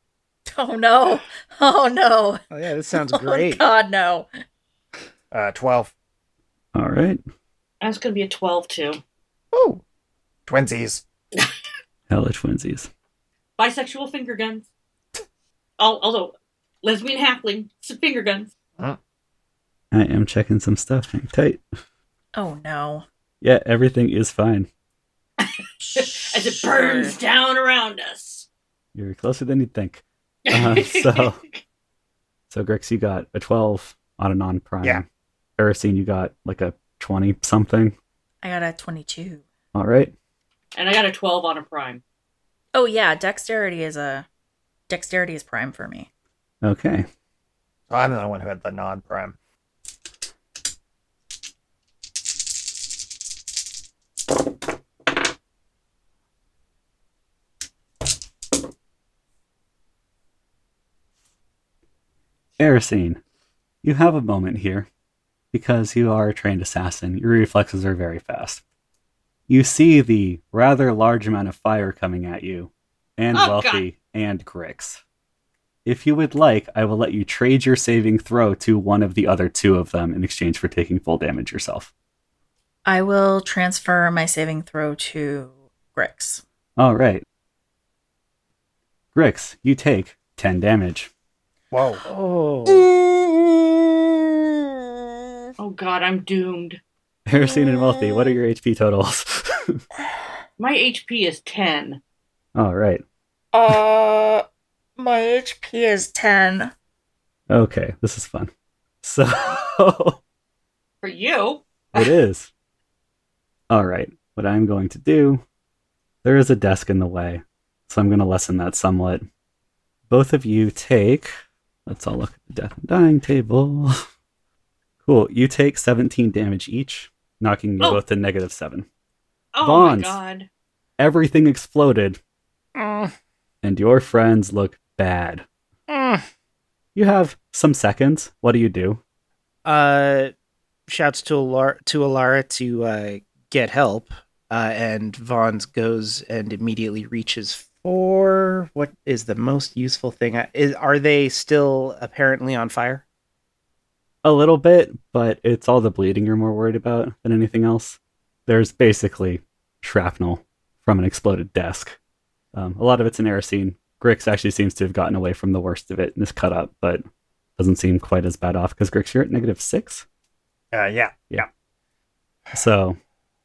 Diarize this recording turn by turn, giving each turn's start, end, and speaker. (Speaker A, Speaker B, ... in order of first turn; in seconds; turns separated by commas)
Speaker A: 0.5-4.3, Speaker B: 2.5-3.7, Speaker C: 5.3-5.9, Speaker D: 6.7-7.2, Speaker E: 7.8-9.0, Speaker C: 9.5-9.8, Speaker C: 10.5-11.0, Speaker D: 12.1-12.9, Speaker E: 13.6-14.7, Speaker E: 15.8-18.5, Speaker D: 19.9-21.6, Speaker A: 22.3-23.1, Speaker D: 23.4-24.7, Speaker E: 25.4-28.5, Speaker A: 25.9-27.1, Speaker D: 28.9-31.4, Speaker E: 30.4-31.6, Speaker D: 32.5-35.0, Speaker D: 35.6-37.9, Speaker A: 38.4-39.4, Speaker D: 39.7-40.1, Speaker E: 40.7-42.0, Speaker A: 42.7-44.2, Speaker A: 44.9-46.1, Speaker D: 46.6-47.1, Speaker C: 47.9-49.3, Speaker D: 62.6-63.2, Speaker D: 63.8-64.9, Speaker D: 65.5-68.6, Speaker D: 69.5-75.0, Speaker E: 73.3-73.8, Speaker D: 75.8-81.9, Speaker A: 82.8-86.4, Speaker D: 86.8-87.2, Speaker D: 89.1-91.1, Speaker C: 91.7-92.0, Speaker B: 92.0-93.0, Speaker E: 95.6-96.8, Speaker D: 97.3-99.8, Speaker E: 100.6-102.0, Speaker D: 102.5-103.0, Speaker A: 103.5-104.4, Speaker A: 105.0-106.7, Speaker D: 107.5-108.5, Speaker D: 109.0-110.2, Speaker E: 111.0-112.1, Speaker D: 111.9-112.5, Speaker D: 113.7-115.4, Speaker D: 116.2-119.3, Speaker D: 120.1-121.3, Speaker D: 121.8-124.0, Speaker D: 125.0-128.9, Speaker E: 129.5-130.5, Speaker D: 129.6-130.2, Speaker D: 131.0-132.2, Speaker B: 132.7-133.1, Speaker D: 133.6-135.4, Speaker B: 135.9-136.2, Speaker D: 136.9-139.0, Speaker B: 139.6-140.3, Speaker B: 140.9-153.0, Speaker D: 154.2-162.0, Speaker D: 162.5-167.0, Speaker D: 167.6-170.0, Speaker C: 170.7-171.5, Speaker D: 172.5-173.0